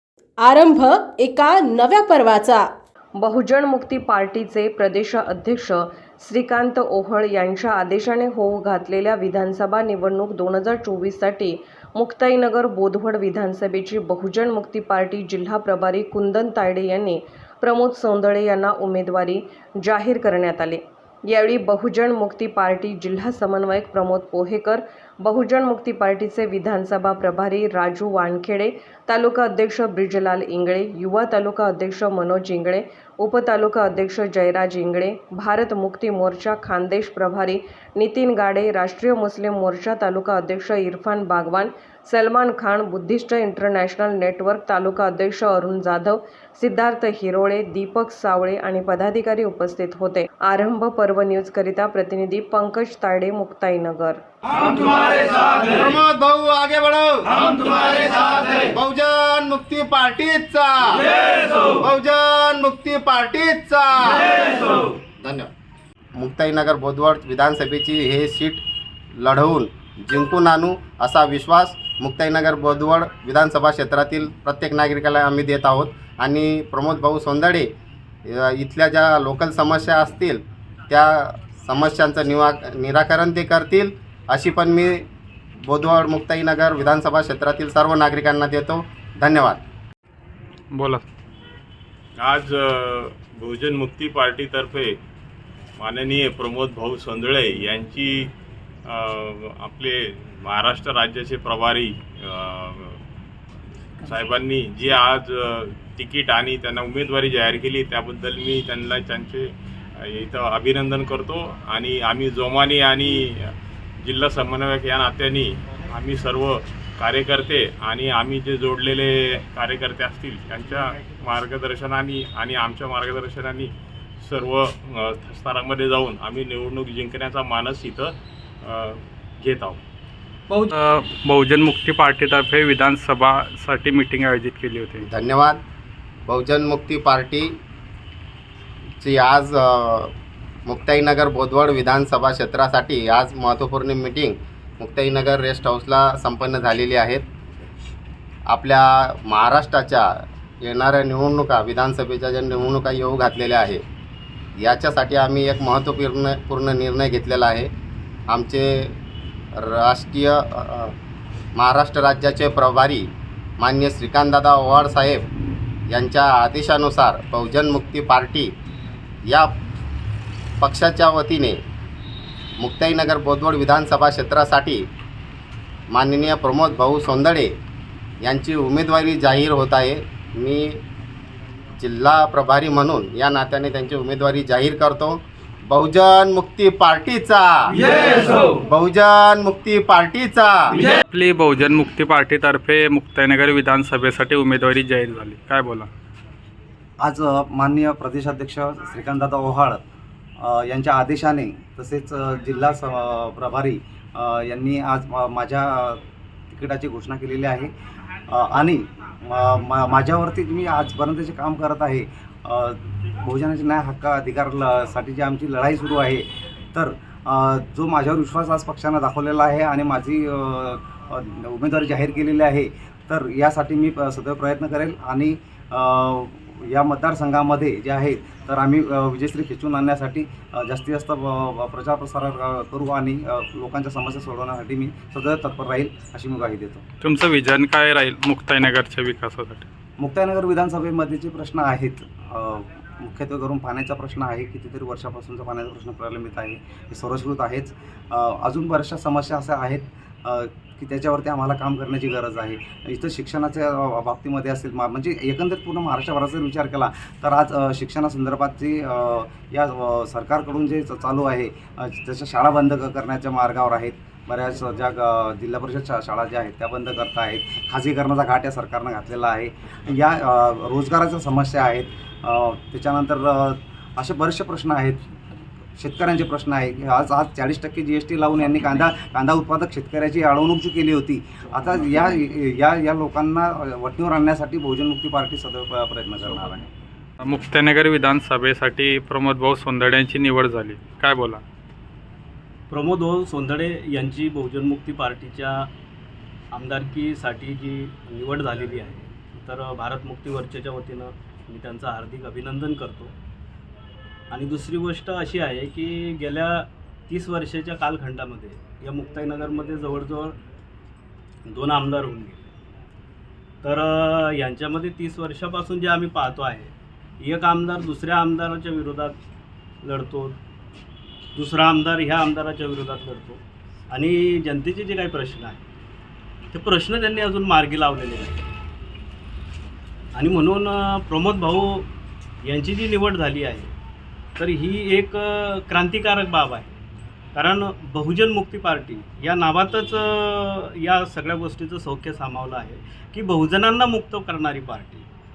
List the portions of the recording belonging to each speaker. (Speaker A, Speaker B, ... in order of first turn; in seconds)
Speaker A: 0.4-2.7, 293.3-293.7, 294.3-295.5, 302.0-302.9, 308.2-308.7, 312.2-312.4
Speaker B: 3.2-55.0
Speaker C: 55.1-65.5, 66.2-68.6, 69.2-77.7, 78.2-85.0, 85.7-89.6, 135.1-135.6, 136.3-137.5, 139.0-140.1, 140.7-147.2, 148.5-150.1, 150.6-153.8, 154.6-157.7, 158.3-158.9, 159.6-160.9, 161.6-163.1, 163.6-165.3, 165.9-168.5, 170.6-171.6, 172.6-174.8, 175.9-177.5, 178.2-180.8, 181.8-190.8
Speaker D: 90.7-91.0, 130.5-135.1, 191.1-195.9, 237.0-239.7, 287.2-291.4
Speaker E: 92.2-94.9, 95.8-98.3, 98.9-103.0, 104.0-109.5, 110.0-129.8
Speaker F: 197.0-199.8, 200.4-207.7, 208.3-236.8, 240.0-275.0, 275.8-286.7
Speaker G: 292.7-295.7, 296.5-303.1, 304.3-310.4, 311.4-312.4, 313.6-319.1, 319.8-320.4, 321.3-325.6, 326.5-328.4, 330.1-331.9, 332.4-333.7, 334.4-336.6, 337.3-345.1